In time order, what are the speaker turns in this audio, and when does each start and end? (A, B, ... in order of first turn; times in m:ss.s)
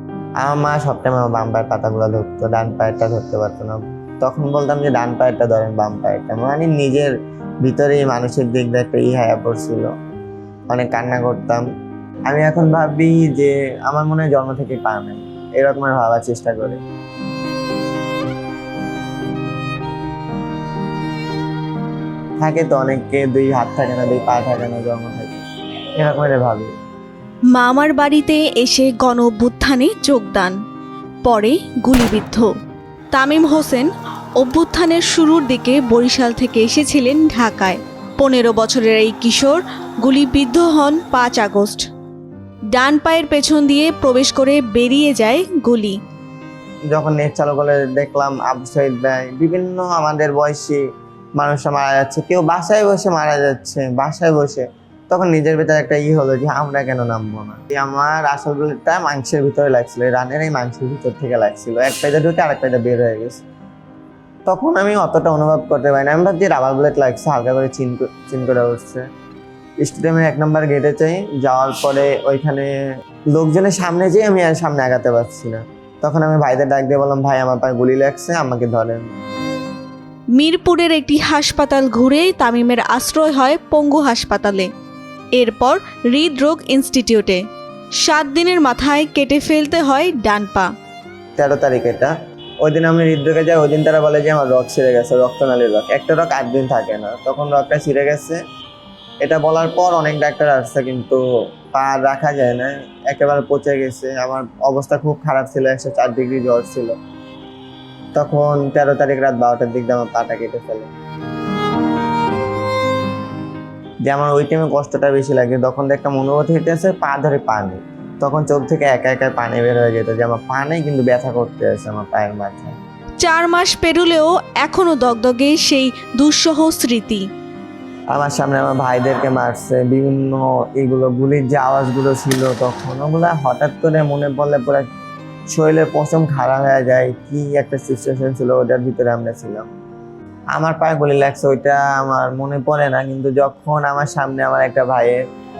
0:00.4-0:07.1 A
0:07.6-0:09.9 A
0:10.7-0:11.6 A
0:12.3-0:16.8 A
0:22.4-0:25.4 A
0:26.0-0:26.7 A
0:27.5-0:30.5 B
0:31.2-0:32.5 B
0:33.1-0:41.8 B
0:42.7-0:46.0 B
0:46.9-0:50.8 A
0:51.4-1:03.4 A
1:04.4-1:09.0 A
1:09.8-1:12.7 A
1:13.3-1:19.0 A
1:20.4-1:24.7 B
1:25.4-1:27.4 B
1:28.0-1:30.7 B
1:31.4-1:38.4 A
1:39.2-1:41.2 A
1:41.7-1:46.9 A
1:48.1-1:50.9 A
1:54.0-2:02.7 A
2:03.2-2:07.2 B
2:08.1-2:14.8 A
2:15.5-2:19.7 A
2:20.5-2:25.2 A